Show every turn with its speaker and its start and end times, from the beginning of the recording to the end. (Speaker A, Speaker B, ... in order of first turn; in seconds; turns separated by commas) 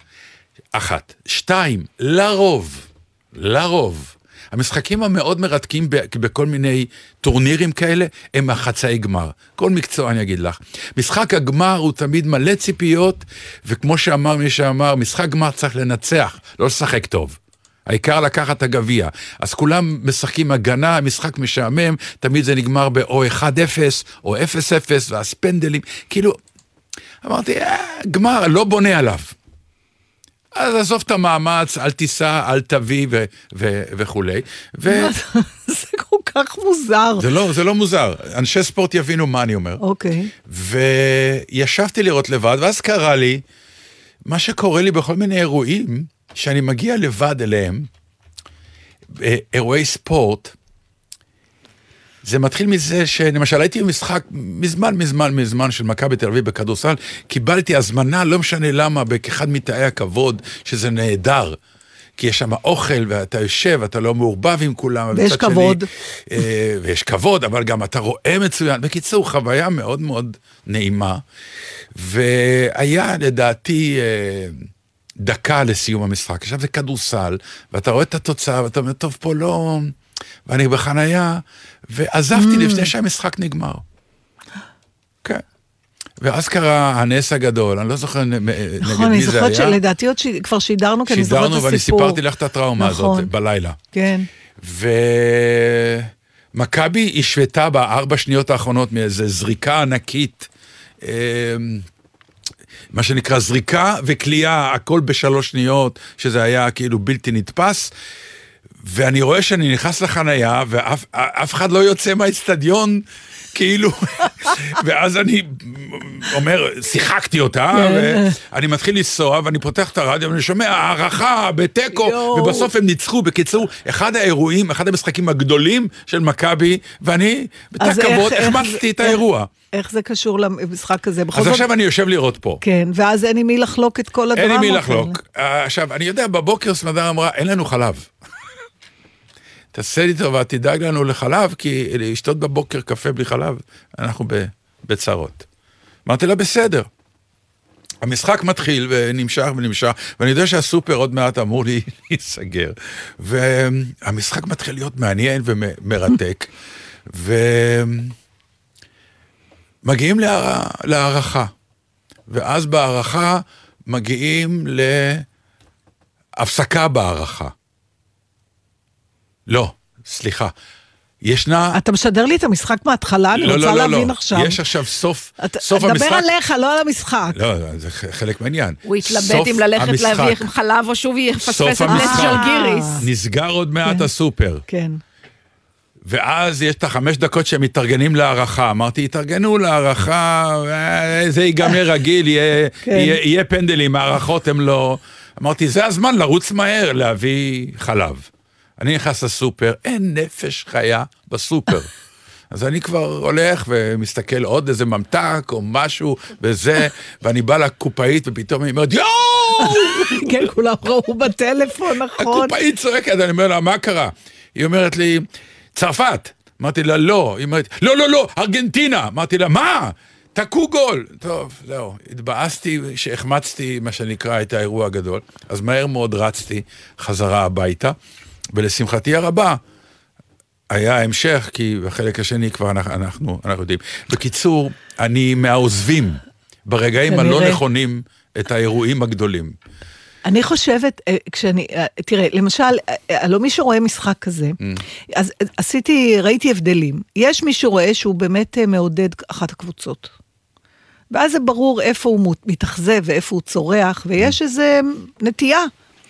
Speaker A: 0.7-26.4, Speaker A: 27.2-29.3, Speaker A: 30.5-35.1, Speaker B: 34.9-37.3, Speaker A: 37.2-39.8, Speaker B: 39.8-40.3, Speaker A: 40.5-43.4, Speaker A: 44.2-47.9, Speaker A: 49.1-50.5, Speaker A: 52.2-61.6, Speaker A: 62.2-71.2, Speaker B: 65.1-65.9, Speaker A: 71.9-74.6, Speaker A: 75.2-79.9, Speaker A: 80.5-83.8, Speaker B: 82.3-82.9, Speaker A: 86.2-89.8, Speaker B: 88.8-92.2, Speaker A: 91.1-93.8, Speaker B: 92.8-93.3, Speaker B: 93.9-94.3, Speaker A: 94.6-100.5, Speaker A: 101.0-101.9, Speaker A: 102.9-107.9, Speaker A: 108.8-129.5, Speaker B: 117.7-118.4, Speaker B: 121.9-122.7, Speaker B: 127.8-129.2, Speaker B: 129.7-131.7, Speaker A: 131.3-132.6, Speaker B: 132.6-135.2, Speaker A: 134.3-138.1, Speaker A: 139.7-145.4, Speaker A: 146.1-146.9, Speaker A: 148.0-156.5, Speaker A: 157.1-158.1, Speaker A: 159.8-161.5, Speaker A: 162.3-165.2, Speaker A: 166.4-167.5, Speaker A: 169.5-170.5, Speaker A: 171.2-171.8, Speaker B: 171.7-174.6, Speaker A: 173.3-176.3, Speaker B: 175.4-177.4, Speaker A: 177.3-180.5, Speaker C: 178.8-183.0, Speaker A: 181.4-184.6, Speaker B: 181.9-183.0, Speaker B: 184.7-185.0, Speaker A: 186.0-201.9, Speaker B: 192.8-193.2, Speaker A: 202.5-210.5, Speaker B: 209.6-212.6, Speaker A: 212.2-227.9, Speaker A: 228.5-229.6, Speaker A: 230.7-239.5, Speaker B: 237.1-237.6, Speaker B: 240.2-244.6, Speaker B: 245.1-250.1, Speaker B: 251.1-255.7